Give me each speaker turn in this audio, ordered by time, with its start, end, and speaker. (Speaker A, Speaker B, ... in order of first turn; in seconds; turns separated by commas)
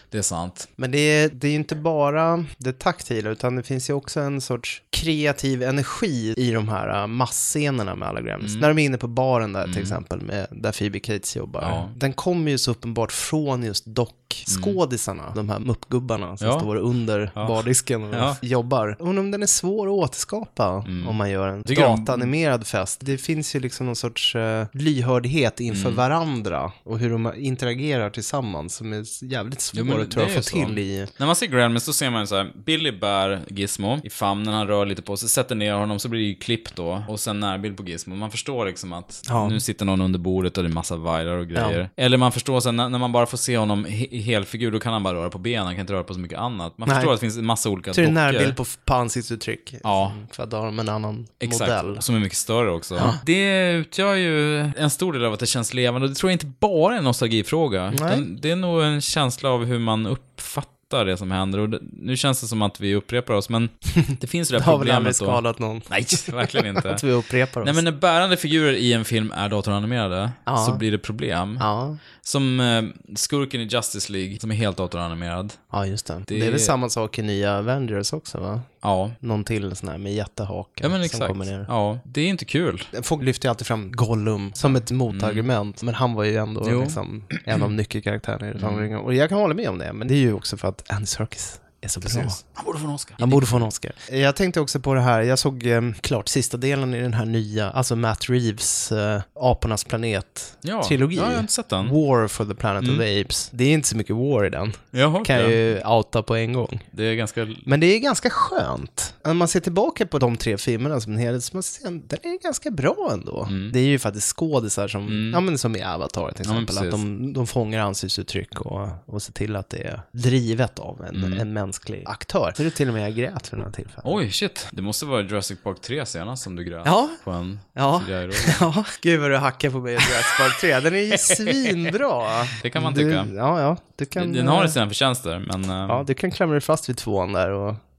Speaker A: 0.1-0.7, Speaker B: 0.8-31.1, Speaker A: 8.4-8.7, Speaker A: 9.6-10.0, Speaker A: 11.6-11.9, Speaker A: 14.5-14.8, Speaker A: 16.4-16.7, Speaker A: 18.1-18.4, Speaker A: 20.9-22.3, Speaker A: 25.7-26.0, Speaker A: 29.7-48.6, Speaker B: 39.3-39.6, Speaker B: 41.5-41.8, Speaker B: 46.9-47.1, Speaker B: 47.9-52.0, Speaker A: 49.8-50.2, Speaker A: 51.4-67.0, Speaker B: 57.9-58.2, Speaker B: 64.0-67.8, Speaker A: 67.6-71.7, Speaker B: 70.5-70.8, Speaker B: 71.6-72.0, Speaker A: 72.2-75.6, Speaker B: 75.7-81.7, Speaker A: 76.3-76.7, Speaker A: 78.8-79.2, Speaker A: 80.8-82.9, Speaker B: 82.9-92.4, Speaker A: 84.7-85.5, Speaker A: 86.6-87.4, Speaker A: 88.6-88.9, Speaker A: 92.0-93.7, Speaker B: 93.2-106.8, Speaker A: 100.6-102.0, Speaker A: 104.9-105.6, Speaker A: 106.9-107.7, Speaker B: 107.7-124.1, Speaker A: 113.5-113.8, Speaker A: 115.1-115.4, Speaker A: 116.4-117.0, Speaker A: 121.1-121.5, Speaker A: 124.0-128.6, Speaker B: 126.8-127.2, Speaker B: 127.8-134.8, Speaker A: 131.2-131.9, Speaker A: 132.6-133.3, Speaker A: 134.2-136.1, Speaker B: 135.9-137.8